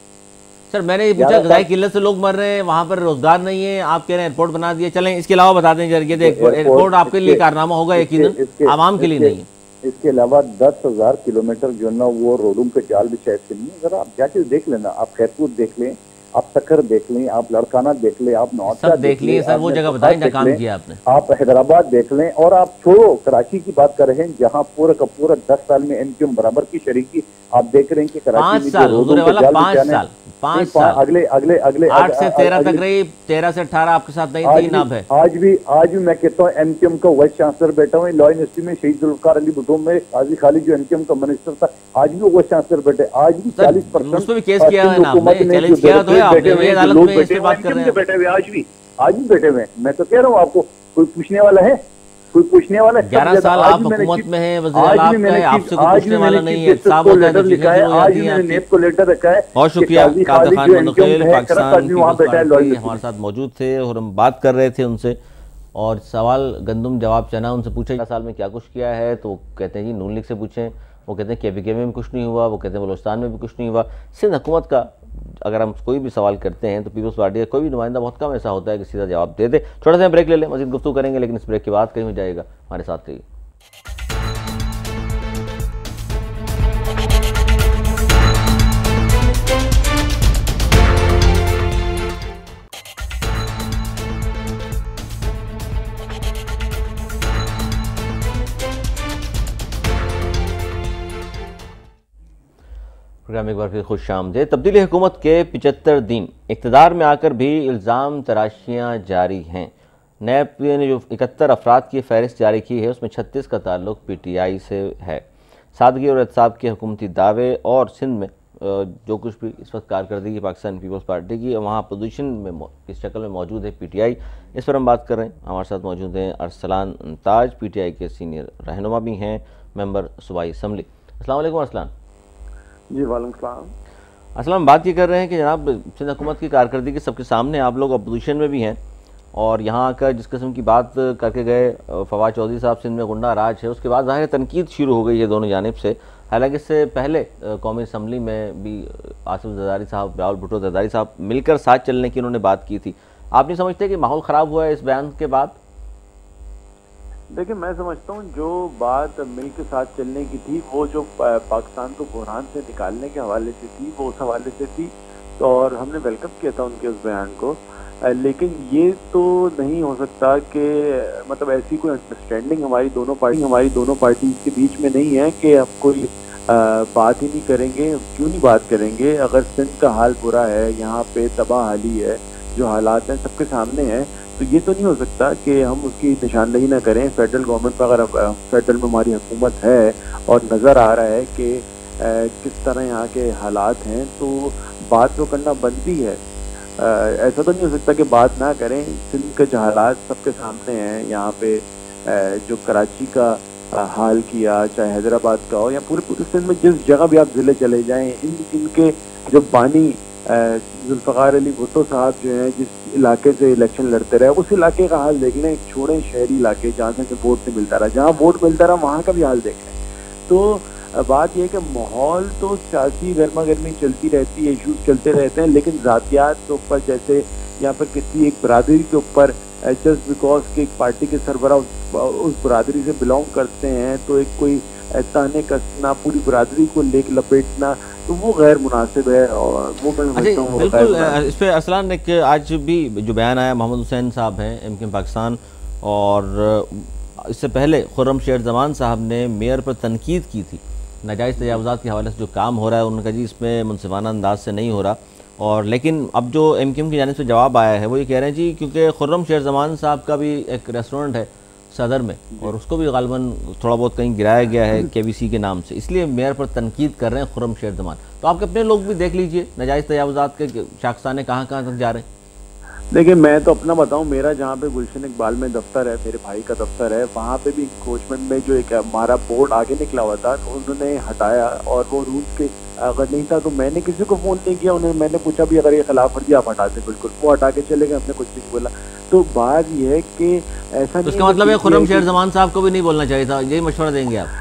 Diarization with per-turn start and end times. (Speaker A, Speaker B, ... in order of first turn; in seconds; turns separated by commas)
Speaker A: 0.7-9.5, Speaker B: 1.2-1.6, Speaker B: 6.2-7.4, Speaker B: 7.9-30.0, Speaker A: 18.7-21.0, Speaker A: 28.4-31.0, Speaker B: 30.5-32.8, Speaker A: 31.9-35.1, Speaker B: 34.4-51.8, Speaker A: 43.5-48.0, Speaker B: 52.3-63.0, Speaker A: 53.0-58.6, Speaker A: 59.5-65.2, Speaker A: 65.8-83.2, Speaker A: 103.3-115.2, Speaker A: 115.8-131.9, Speaker C: 132.9-133.7, Speaker A: 134.3-138.8, Speaker A: 139.3-155.6, Speaker C: 157.3-196.2, Speaker C: 196.8-219.8, Speaker C: 220.3-241.3, Speaker A: 240.1-272.1, Speaker C: 272.9-292.1, Speaker A: 291.1-294.3